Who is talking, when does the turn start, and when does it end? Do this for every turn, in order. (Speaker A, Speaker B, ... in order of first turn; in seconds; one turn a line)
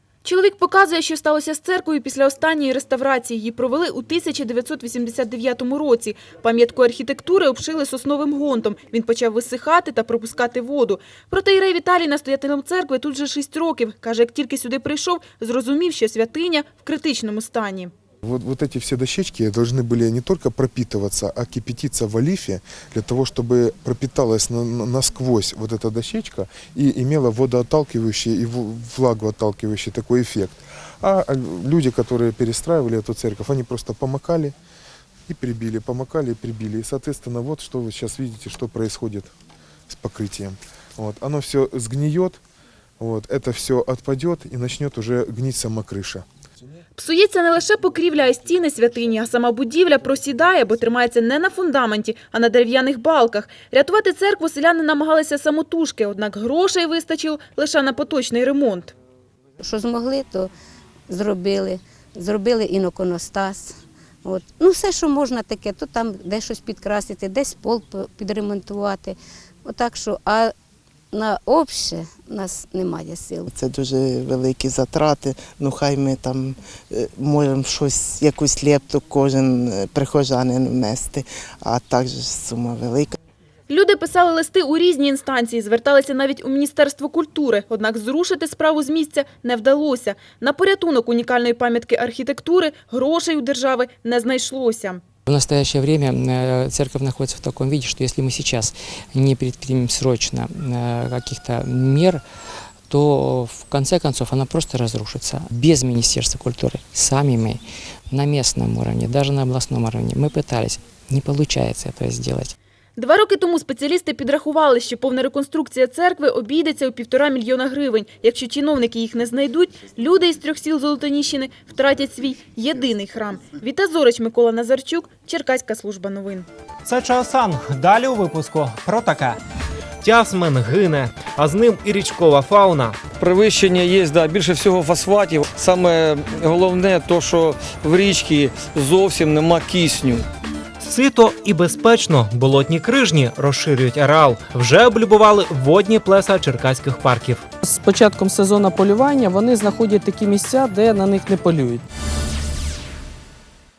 Speaker A: 0.2-17.9
Speaker B: 18.2-34.5
Speaker B: 35.3-39.3
Speaker B: 39.9-42.4
Speaker B: 43.0-46.2
Speaker A: 47.0-58.9
Speaker C: 59.6-60.5
Speaker C: 61.1-70.5
Speaker C: 71.1-73.5
Speaker D: 73.5-83.1
Speaker A: 83.7-95.0
Speaker E: 95.3-102.2
Speaker E: 102.9-112.5
Speaker A: 113.0-126.5
Speaker F: 126.8-129.4
Speaker F: 130.0-133.0
Speaker G: 133.2-140.2
Speaker F: 140.8-147.5
Speaker H: 147.6-151.8